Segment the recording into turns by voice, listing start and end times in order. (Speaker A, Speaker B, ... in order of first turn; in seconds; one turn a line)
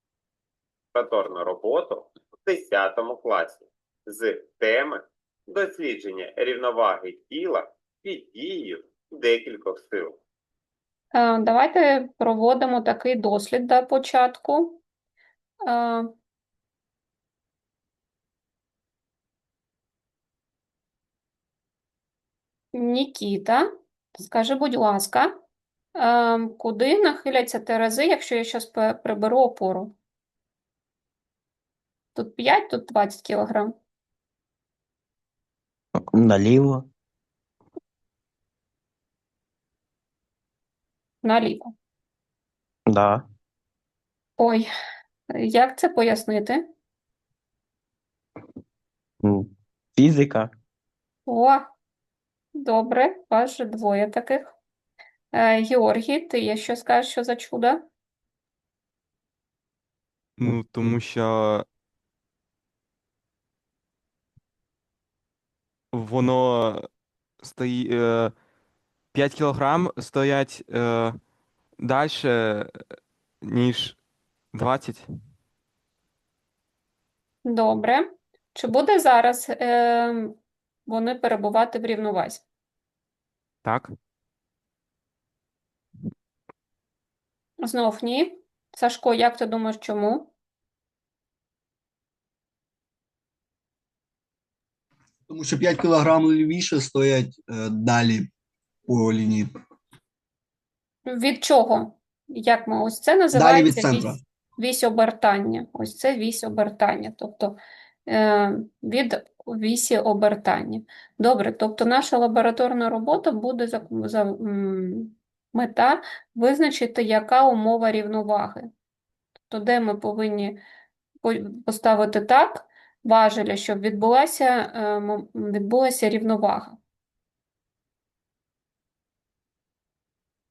Speaker A: 0.9-10.2
Speaker B: 11.1-14.8
Speaker B: 15.7-16.1
Speaker B: 22.7-23.7
Speaker B: 24.2-25.3
Speaker B: 25.9-29.9
Speaker B: 32.1-33.7
Speaker C: 36.1-36.9
Speaker B: 41.2-41.7
Speaker C: 42.9-43.3
Speaker B: 44.4-44.7
Speaker B: 45.4-46.6
Speaker C: 49.2-50.5
Speaker B: 51.3-51.7
Speaker B: 52.6-54.6
Speaker B: 55.3-57.9
Speaker D: 60.4-61.7
Speaker D: 65.9-66.9
Speaker D: 67.4-68.3
Speaker D: 69.1-71.1
Speaker D: 71.8-72.7
Speaker D: 73.4-74.0
Speaker D: 74.5-75.1
Speaker B: 77.5-82.4
Speaker D: 83.6-83.9
Speaker B: 87.6-90.3
Speaker E: 95.3-98.3
Speaker E: 98.9-99.5
Speaker B: 101.1-118.7
Speaker E: 103.3-104.2
Speaker B: 119.5-120.6
Speaker B: 121.2-126.8